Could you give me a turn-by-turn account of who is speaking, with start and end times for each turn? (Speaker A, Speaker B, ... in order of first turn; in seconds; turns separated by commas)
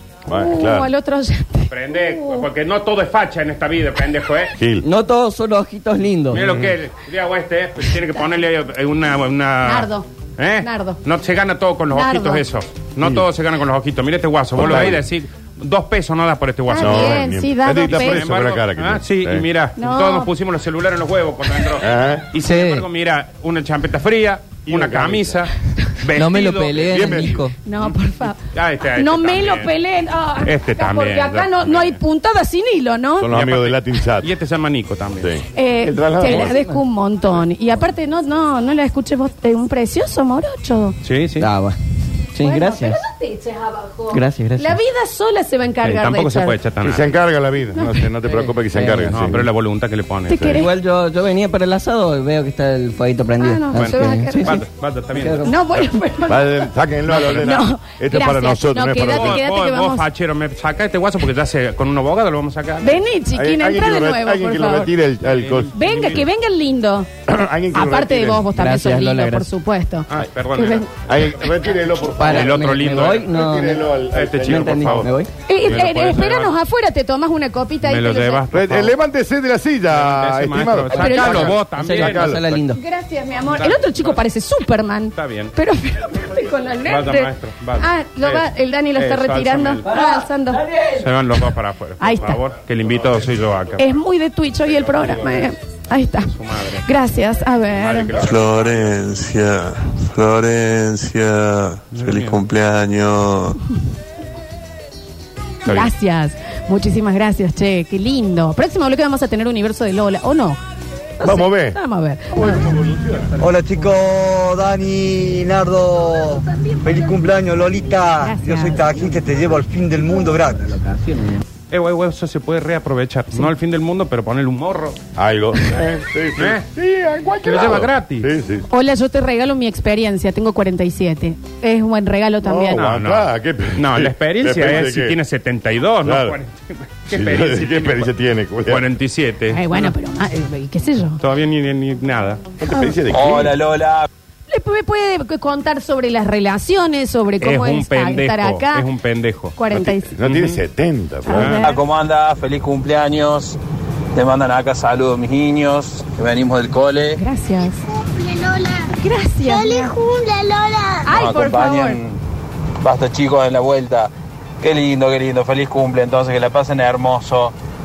Speaker A: 0.3-0.9, Speaker B: 0.3-2.4, Speaker C: 1.7-4.5, Speaker A: 4.6-4.8, Speaker D: 4.8-6.6, Speaker C: 6.3-27.4, Speaker B: 9.7-10.1, Speaker B: 10.6-11.0, Speaker B: 11.9-12.4, Speaker A: 14.6-15.1, Speaker B: 16.7-18.2, Speaker A: 16.8-19.5, Speaker B: 19.8-20.3, Speaker A: 21.8-22.3, Speaker D: 22.5-22.8, Speaker A: 24.7-25.4, Speaker D: 26.2-27.5, Speaker A: 26.9-27.4, Speaker B: 27.6-28.4, Speaker C: 28.5-29.8, Speaker B: 29.0-33.3, Speaker C: 30.4-32.0, Speaker A: 33.2-34.3, Speaker C: 33.3-35.4, Speaker A: 35.2-36.6, Speaker B: 35.6-41.0, Speaker D: 36.3-36.8, Speaker C: 41.0-41.5, Speaker D: 41.4-41.8, Speaker D: 42.3-43.0, Speaker B: 42.4-46.6, Speaker D: 44.1-44.8, Speaker C: 45.8-47.1, Speaker A: 46.8-49.5, Speaker D: 48.3-49.3, Speaker C: 49.1-50.6, Speaker B: 50.3-50.7, Speaker A: 50.4-50.6, Speaker D: 50.5-54.6, Speaker B: 53.4-54.6, Speaker C: 53.9-55.5, Speaker D: 55.1-55.5, Speaker B: 55.5-56.7, Speaker A: 56.3-59.4, Speaker C: 57.1-57.6, Speaker B: 57.2-60.0, Speaker C: 59.0-63.1, Speaker B: 62.8-64.9, Speaker A: 63.3-65.7, Speaker C: 65.2-66.3, Speaker B: 65.8-67.1, Speaker A: 67.3-68.5, Speaker B: 67.7-70.9, Speaker D: 68.5-69.5, Speaker C: 70.1-70.9, Speaker A: 71.1-75.1, Speaker D: 72.1-73.9, Speaker C: 72.2-73.3, Speaker C: 74.1-75.1, Speaker D: 74.5-75.3, Speaker B: 75.5-78.4, Speaker C: 75.7-76.5, Speaker C: 77.8-79.0, Speaker A: 78.5-82.6, Speaker C: 79.9-82.6, Speaker B: 80.9-81.5, Speaker D: 81.7-82.8, Speaker B: 82.8-90.7, Speaker C: 83.5-84.2, Speaker C: 85.1-85.5, Speaker C: 86.8-89.9, Speaker C: 91.0-93.9, Speaker B: 92.0-92.4, Speaker B: 93.8-96.3, Speaker C: 94.7-95.5, Speaker C: 96.2-96.9, Speaker B: 96.8-98.2, Speaker C: 97.7-99.0, Speaker E: 98.3-103.5, Speaker C: 101.9-102.4, Speaker C: 105.7-105.9, Speaker B: 105.7-110.6, Speaker B: 111.2-112.7, Speaker A: 111.2-111.8, Speaker A: 112.3-113.3, Speaker F: 113.4-120.8, Speaker B: 118.2-118.8, Speaker C: 121.7-125.0, Speaker A: 125.2-128.7, Speaker C: 126.4-126.6, Speaker C: 127.4-128.3, Speaker B: 128.7-132.8, Speaker A: 132.4-135.2, Speaker C: 132.7-138.1, Speaker A: 136.0-136.4, Speaker A: 137.1-138.9, Speaker C: 138.7-139.9, Speaker B: 139.5-141.2, Speaker C: 141.2-142.4, Speaker A: 142.6-143.7, Speaker B: 144.5-148.9, Speaker C: 147.4-149.6, Speaker B: 149.6-150.1, Speaker A: 149.7-151.7, Speaker C: 150.2-150.6, Speaker B: 151.3-151.8, Speaker C: 151.3-151.6, Speaker B: 157.2-157.8, Speaker G: 157.9-158.9, Speaker B: 159.0-159.9, Speaker G: 159.4-161.2, Speaker B: 161.1-162.0